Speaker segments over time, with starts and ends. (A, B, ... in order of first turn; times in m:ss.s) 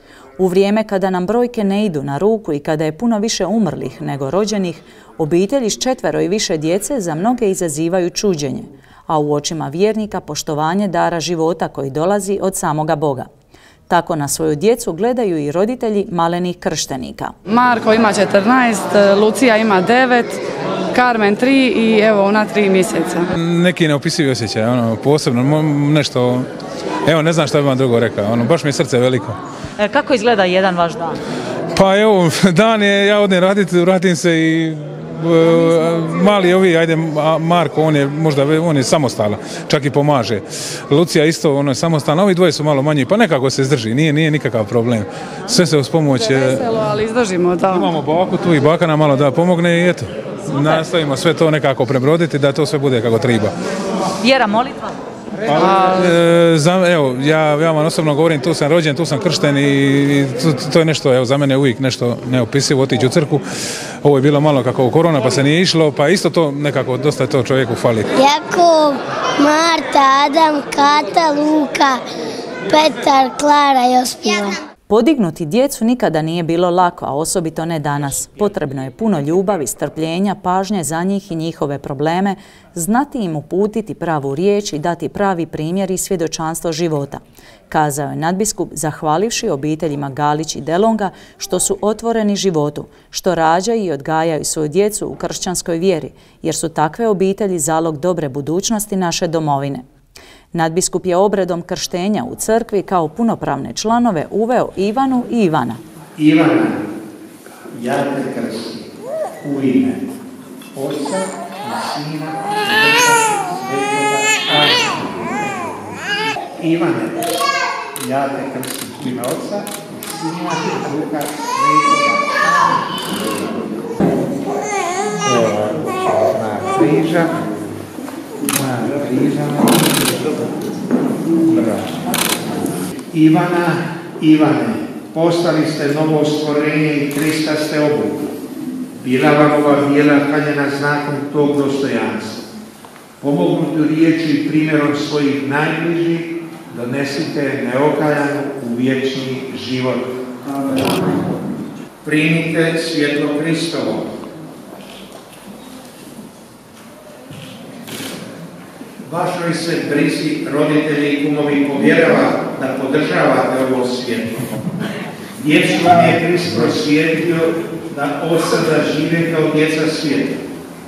0:00.4-0:13.3 A
0:13.9-0:17.3 A
0:17.5-0:20.4 B
0:20.9-0:23.3 B
0:23.4-0:26.5 C
0:27.0-0:29.4 C
0:31.7-0:46.6 C
0:46.2-0:48.0 B
0:47.7-0:53.5 C
0:55.5-1:03.4 C
0:55.6-0:56.1 B
1:04.0-1:08.1 C
1:08.2-1:12.0 D
1:12.7-1:14.6 D
1:14.9-1:39.8 A
1:40.5-1:45.8 A
1:46.2-1:46.7 E
1:47.8-1:48.8 E
1:49.4-1:49.9 E
1:50.8-1:55.9 E
1:56.6-1:57.3 E
1:58.0-2:02.2 E
2:05.2-2:07.4 E
2:08.6-2:10.3 E
2:11.4-2:12.0 E
2:13.1-2:18.2 E
2:19.0-2:22.4 E
2:23.2-2:30.0 E
2:32.0-2:34.0 E
2:39.1-2:44.3 E
2:45.4-2:50.3 E